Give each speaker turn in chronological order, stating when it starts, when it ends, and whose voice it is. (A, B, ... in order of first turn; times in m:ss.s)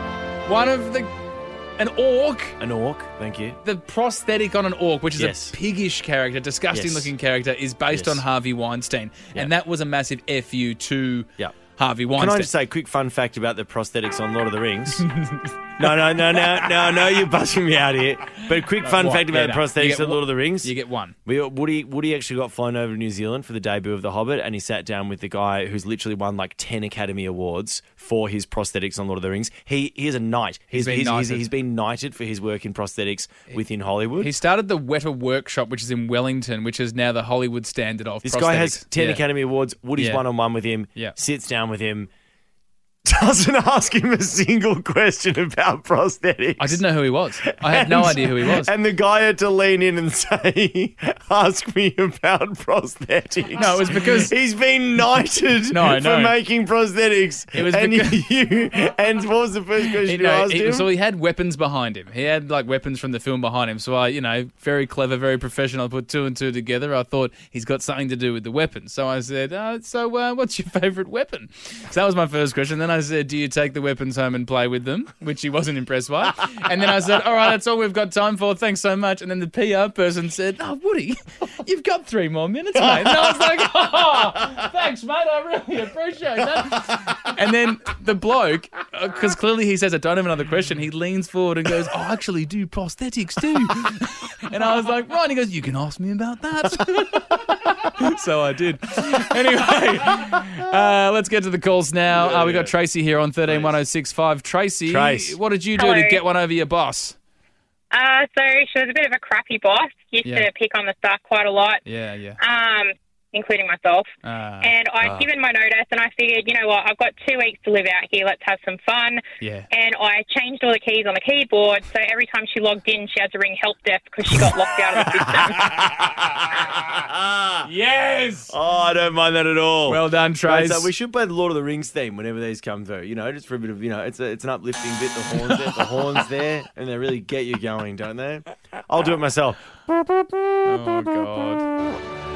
0:00.4-0:01.1 A
0:01.8-0:02.6 A
0:02.6-0:03.6 B
0:03.6-0:12.5 A
0:05.2-0:05.6 B
0:06.7-0:07.1 B
0:07.9-0:08.2 B
0:12.2-0:15.0 B
0:15.0-0:15.5 A
0:15.8-0:20.7 B
0:16.4-0:16.9 A
0:18.5-0:21.2 A
0:21.2-0:34.3 B
0:30.7-0:31.5 A
0:34.2-0:39.2 A
0:38.2-0:42.1 B
0:40.0-0:40.2 A
0:43.0-0:46.8 B
0:46.6-0:48.7 A
0:47.4-1:00.9 B
0:53.5-0:54.3 A
0:55.7-0:56.4 A
0:57.5-0:58.2 A
1:00.0-1:47.2 A
1:42.1-1:42.7 B
1:43.4-1:43.8 B
1:44.9-1:45.4 B
1:45.8-1:46.2 C
1:47.9-1:51.8 C
1:50.2-1:50.5 A
1:51.8-1:52.4 A
1:52.4-1:54.1 C
1:54.2-1:55.2 A
1:54.6-2:05.8 C
1:59.4-1:59.7 A
2:05.0-2:06.0 A
2:07.0-2:07.7 B
2:07.6-2:08.5 A
2:08.5-2:19.6 B
2:09.9-2:10.9 A
2:15.4-2:16.3 A
2:20.6-2:21.7 A